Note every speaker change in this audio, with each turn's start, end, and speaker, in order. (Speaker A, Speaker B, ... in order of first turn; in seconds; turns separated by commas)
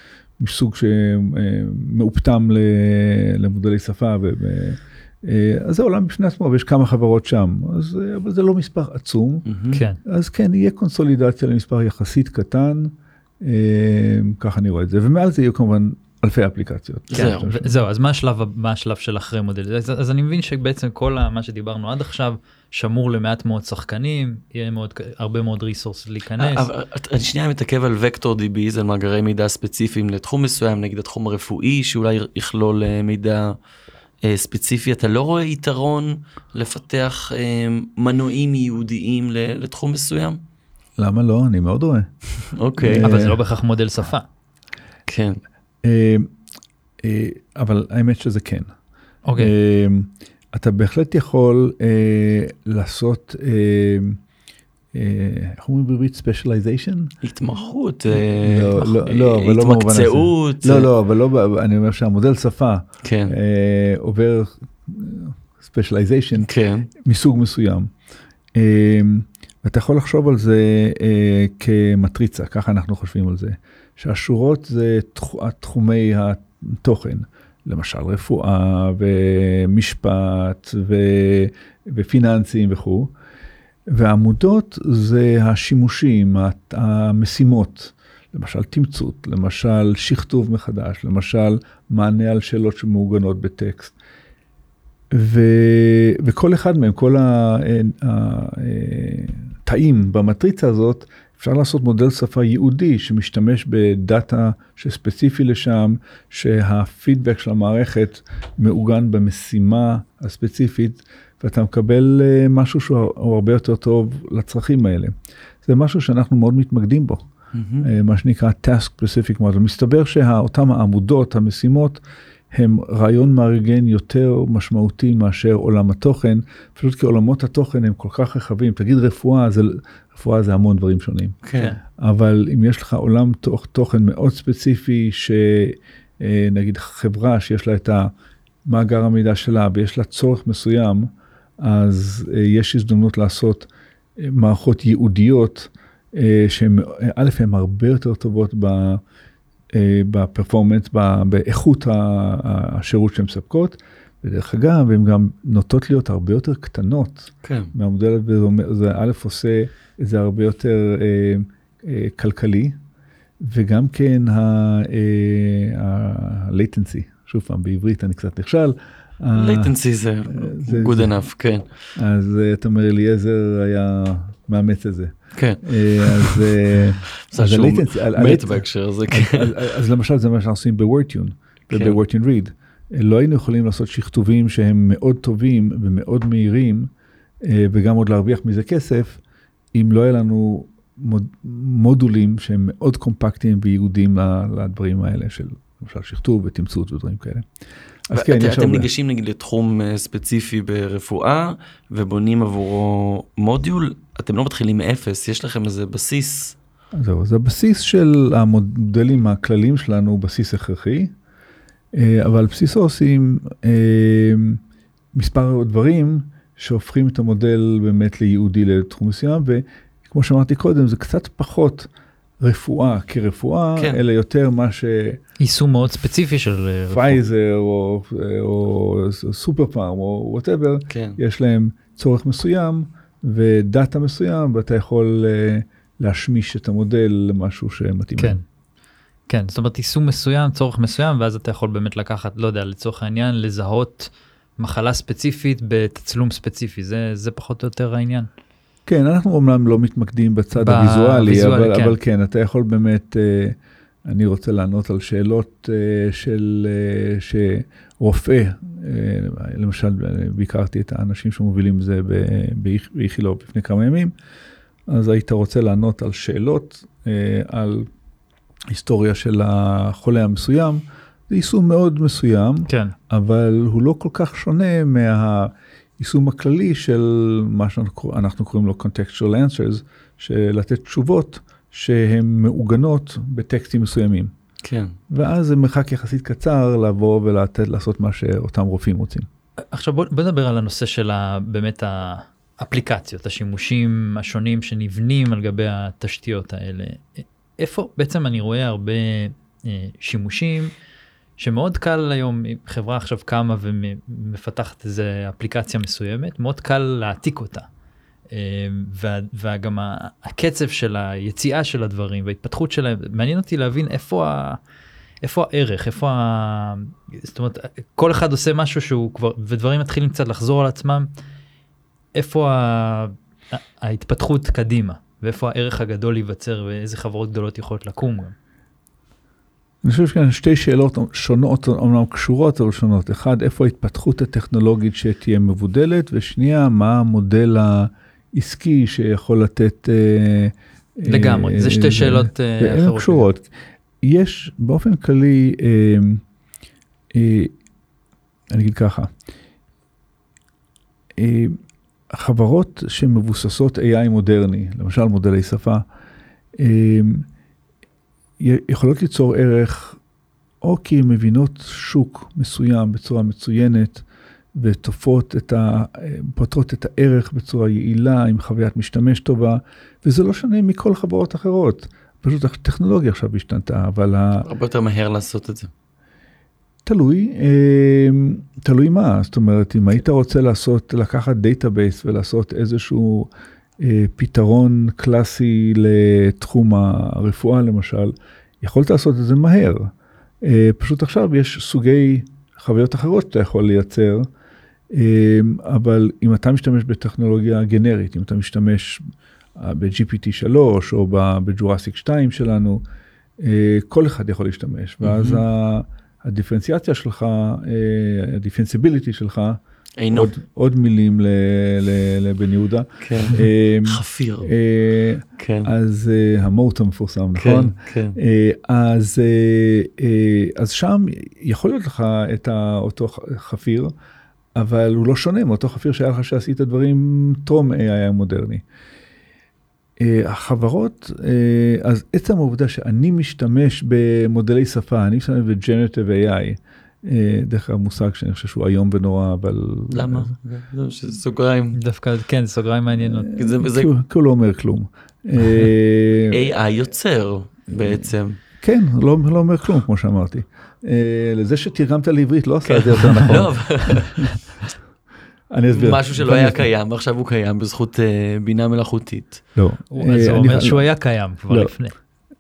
Speaker A: 0.4-9.5, Speaker B: 9.5-9.8, Speaker C: 9.7-10.0, Speaker A: 10.0-17.8, Speaker B: 17.1-17.4, Speaker C: 17.1-26.7, Speaker B: 26.4-33.6, Speaker B: 34.2-40.4, Speaker A: 41.0-42.1, Speaker B: 42.5-43.1, Speaker A: 42.8-43.4, Speaker C: 42.8-44.3, Speaker B: 45.1-45.4, Speaker A: 45.8-46.3, Speaker A: 47.0-48.7, Speaker C: 49.3-49.5, Speaker A: 49.4-54.2, Speaker A: 54.9-57.1, Speaker B: 57.2-60.9, Speaker A: 58.2-67.9, Speaker B: 63.0-63.4, Speaker B: 66.4-66.9, Speaker A: 68.5-83.1, Speaker A: 83.9-94.0, Speaker A: 95.1-117.2, Speaker B: 117.5-117.9, Speaker A: 117.8-131.4, Speaker B: 131.4-131.7, Speaker A: 132.0-138.1, Speaker A: 138.7-149.0, Speaker A: 149.7-162.8, Speaker B: 157.4-157.7, Speaker A: 163.4-169.7, Speaker B: 169.3-171.7, Speaker A: 170.3-171.2, Speaker A: 171.9-186.9, Speaker B: 175.3-176.5, Speaker B: 177.3-179.6, Speaker B: 181.7-182.0, Speaker A: 187.4-189.2, Speaker A: 189.7-197.5, Speaker A: 198.1-198.9, Speaker B: 198.1-206.6, Speaker A: 206.9-211.1, Speaker A: 211.9-214.6, Speaker A: 215.1-221.9, Speaker A: 222.4-225.2, Speaker B: 223.8-224.0, Speaker C: 225.4-227.2, Speaker A: 226.9-238.4, Speaker B: 230.9-231.2, Speaker C: 238.2-238.4, Speaker C: 239.3-248.3, Speaker A: 248.9-264.1, Speaker C: 250.6-252.0, Speaker A: 264.9-267.9, Speaker A: 268.7-284.3, Speaker C: 272.7-272.9, Speaker B: 284.6-285.0, Speaker A: 285.1-289.3, Speaker C: 289.7-300.7, Speaker C: 301.4-307.7, Speaker C: 308.3-314.6, Speaker C: 315.2-321.1, Speaker C: 322.1-328.4, Speaker A: 329.8-343.5, Speaker C: 341.1-343.3, Speaker A: 344.0-346.2, Speaker A: 347.1-347.5, Speaker A: 348.5-349.1, Speaker A: 351.2-351.6, Speaker A: 352.1-355.8, Speaker A: 356.6-357.3, Speaker A: 358.4-360.0, Speaker A: 360.6-374.5, Speaker B: 374.4-375.7, Speaker A: 376.9-394.3, Speaker A: 394.9-399.0, Speaker A: 399.6-402.8, Speaker A: 403.4-409.6, Speaker B: 405.0-405.4, Speaker B: 410.0-410.3, Speaker A: 410.1-423.9, Speaker B: 413.0-414.5, Speaker B: 415.4-415.7, Speaker B: 417.4-418.2, Speaker A: 424.6-428.6, Speaker A: 430.0-440.3, Speaker B: 439.9-441.8, Speaker C: 441.8-443.3, Speaker A: 443.0-446.4, Speaker B: 443.4-443.9, Speaker B: 446.3-448.4, Speaker A: 448.6-454.2, Speaker B: 452.6-454.3, Speaker A: 455.5-456.7, Speaker B: 455.7-459.4, Speaker A: 459.6-460.8, Speaker C: 459.9-461.9